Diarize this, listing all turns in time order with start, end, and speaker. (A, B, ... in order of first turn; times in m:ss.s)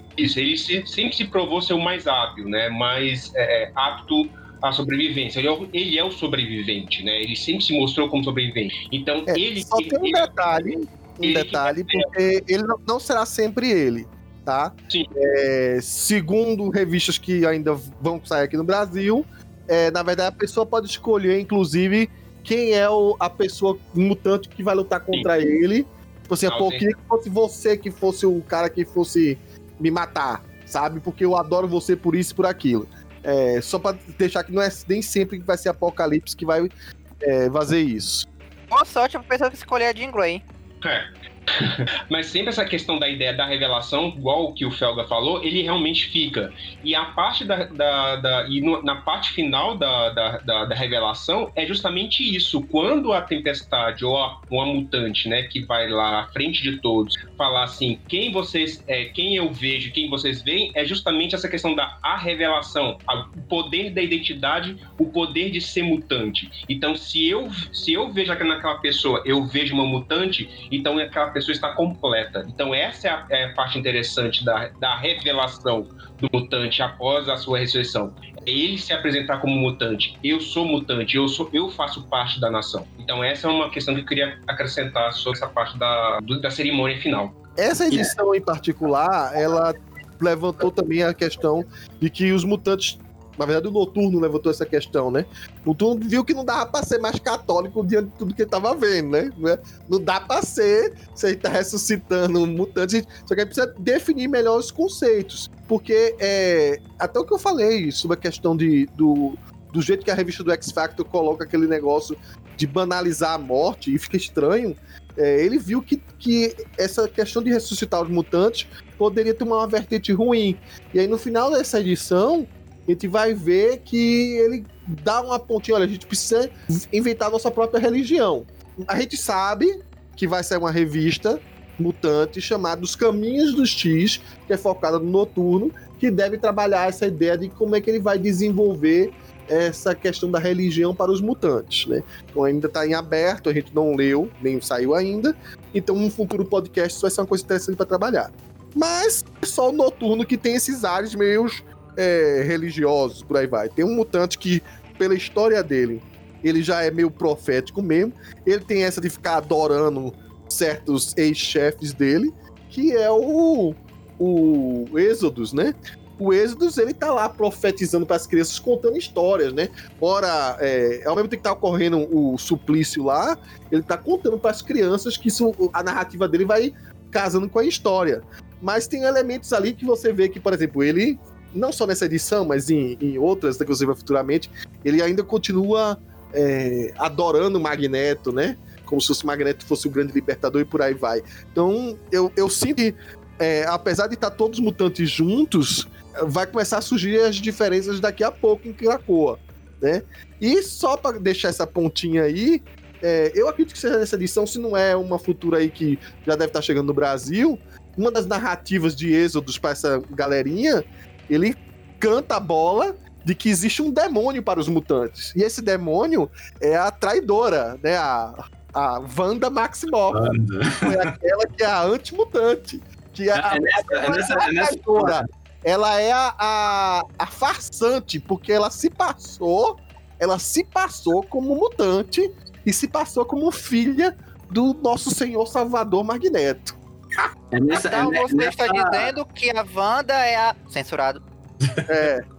0:00.2-0:10.4 A
0:09.3-0:36.7 B
0:11.2-0:12.1 A
0:26.5-0:26.8 A
0:37.2-0:38.3 B
0:38.7-0:40.4 C
0:40.8-1:27.3 A
1:27.6-3:40.2 B
3:40.1-3:41.1 D
3:40.8-3:56.8 B
3:43.3-3:45.2 D
3:57.5-3:59.1 D
3:57.7-4:01.2 C
4:01.6-4:01.9 D
4:01.9-4:02.2 B